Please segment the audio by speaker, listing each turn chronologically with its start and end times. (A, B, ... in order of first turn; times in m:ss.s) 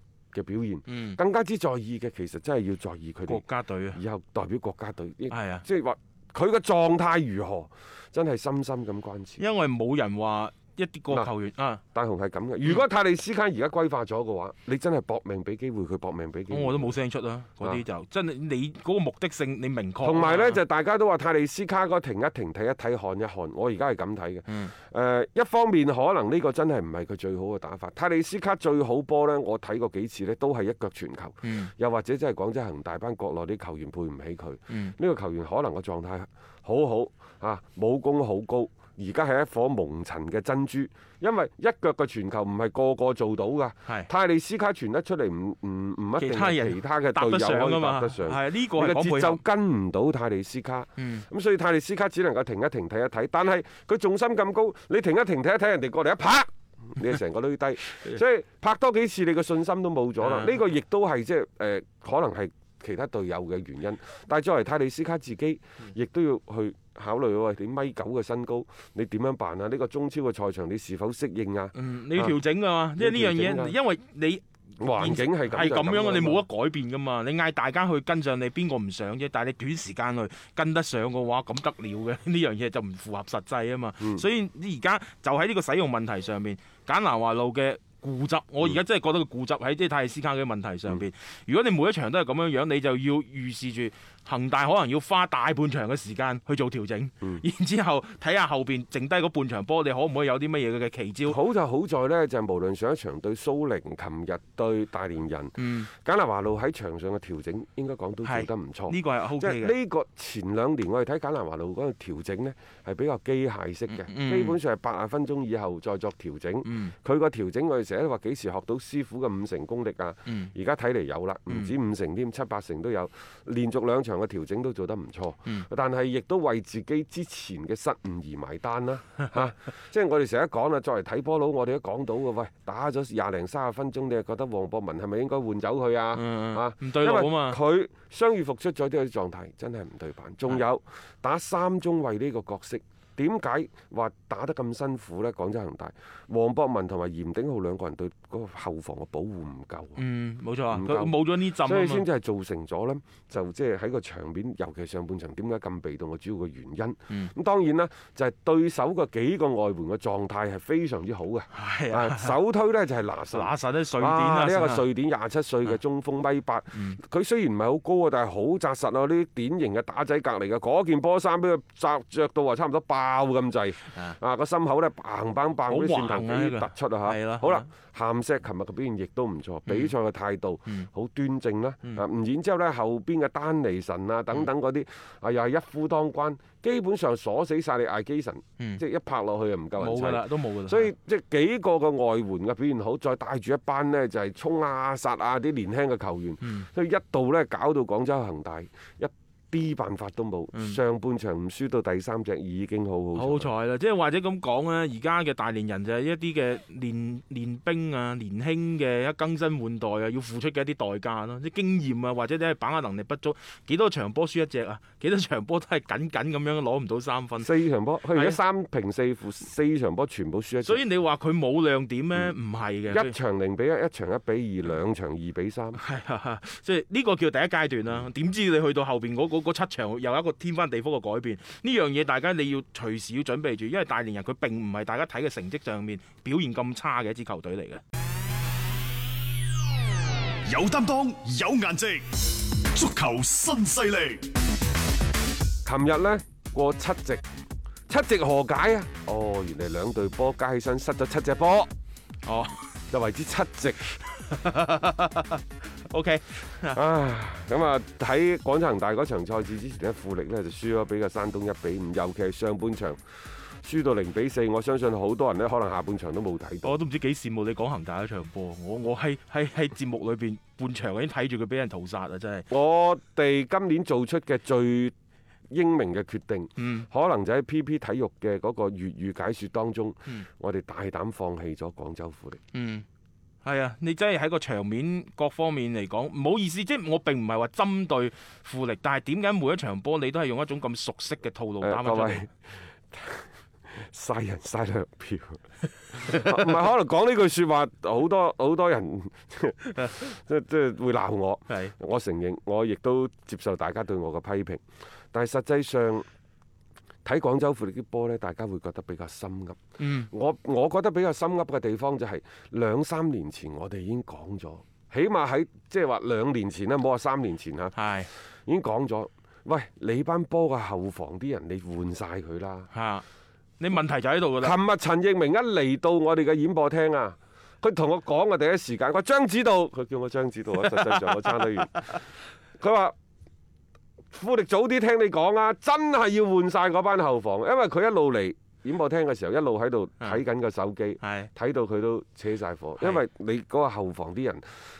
0:00.3-0:03.4 A
0:00.9-0:01.2 B
0:03.3-0:04.0 B
0:03.9-0:09.4 A
0:05.3-0:05.7 B
0:09.4-0:11.8 B
0:11.9-0:17.0 A
0:16.5-0:20.6 B
0:20.0-1:12.4 A
0:24.5-0:24.7 B
0:31.4-0:31.7 B
0:34.7-0:35.0 B
0:46.2-0:49.4 B
0:51.0-0:51.3 B
1:00.2-1:00.6 B
1:11.8-1:41.4 B
1:13.0-1:13.8 A
1:14.8-1:16.4 A
1:41.3-2:30.0 A
1:45.6-1:45.9 B
1:48.2-1:49.8 B
1:53.9-1:54.6 B
1:56.6-1:57.0 B
2:00.3-2:00.5 B
2:16.1-2:17.6 B
2:30.0-2:32.1 B
2:30.7-3:23.5 A
2:41.5-2:42.4 B
2:43.3-2:44.9 B
2:46.7-2:47.0 B
2:55.7-2:57.7 B
2:59.7-2:59.9 B
3:09.8-3:10.9 B
3:16.4-3:16.7 B
3:20.5-3:20.8 B
3:23.2-3:37.5 B
3:37.4-3:40.8 A
3:38.1-3:38.4 B
3:40.6-3:43.1 B
3:42.9-3:45.8 A
3:45.8-3:57.8 B
4:00.5-4:04.3 C
4:05.6-4:07.2 A
4:07.9-4:11.7 A
4:12.3-4:12.7 B
4:12.9-4:13.9 A
4:14.2-4:16.8 B
4:16.7-4:23.0 A
4:23.6-4:26.7 A
4:26.6-4:32.5 B
4:32.5-4:34.9 A
4:35.5-4:42.4 A
4:36.6-4:36.9 B
4:42.5-4:42.8 B
4:43.4-4:52.3 B
4:51.6-4:52.4 A
4:52.9-4:55.4 A
4:55.9-4:56.5 B
4:55.9-5:06.1 A
5:07.0-5:17.8 A
5:09.8-5:10.1 B
5:17.8-5:18.1 B
5:18.5-5:22.7 A
5:22.7-5:23.0 B
5:23.6-5:24.6 B
5:24.4-5:32.0 A
5:30.6-5:32.0 B
5:32.6-5:33.0 A
5:34.1-5:44.6 A
5:41.0-5:41.3 B